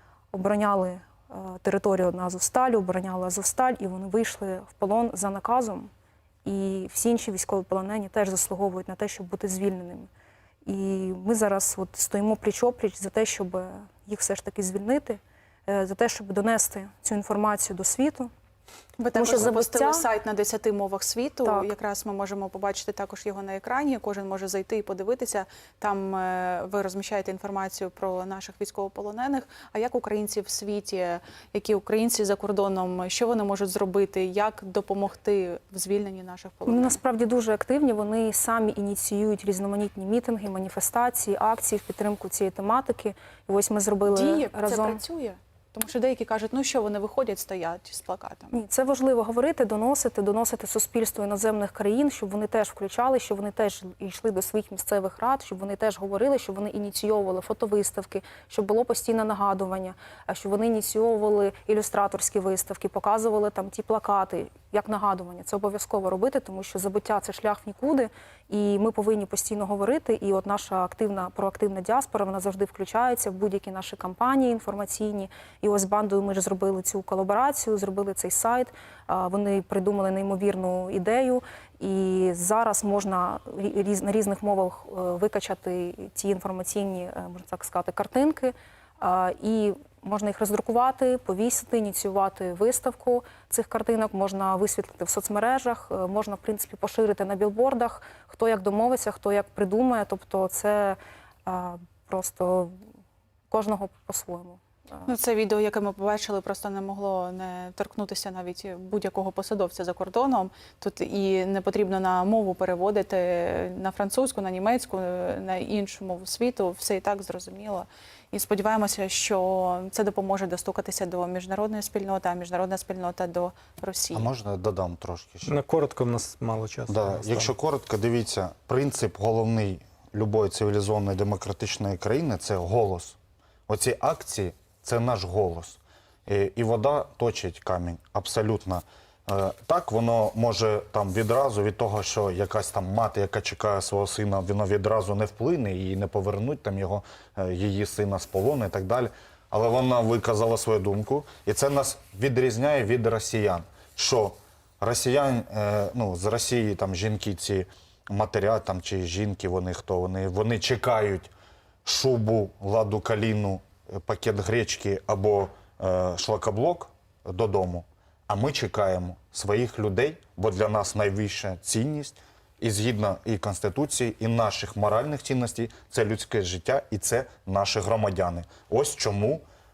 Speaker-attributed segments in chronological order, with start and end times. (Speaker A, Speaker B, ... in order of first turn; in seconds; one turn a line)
Speaker A: 0.3-5.9
Speaker A: 6.4-10.1
Speaker A: 10.7-18.3
Speaker B: 19.0-37.0
Speaker A: 19.1-20.0
Speaker A: 36.6-45.0
Speaker B: 44.1-48.5
Speaker A: 48.5-102.8
Speaker A: 103.5-105.1
Speaker B: 105.1-124.3
Speaker C: 124.1-125.6
Speaker D: 125.4-127.5
Speaker C: 126.9-133.2
Speaker C: 133.7-161.3
Speaker C: 161.8-179.4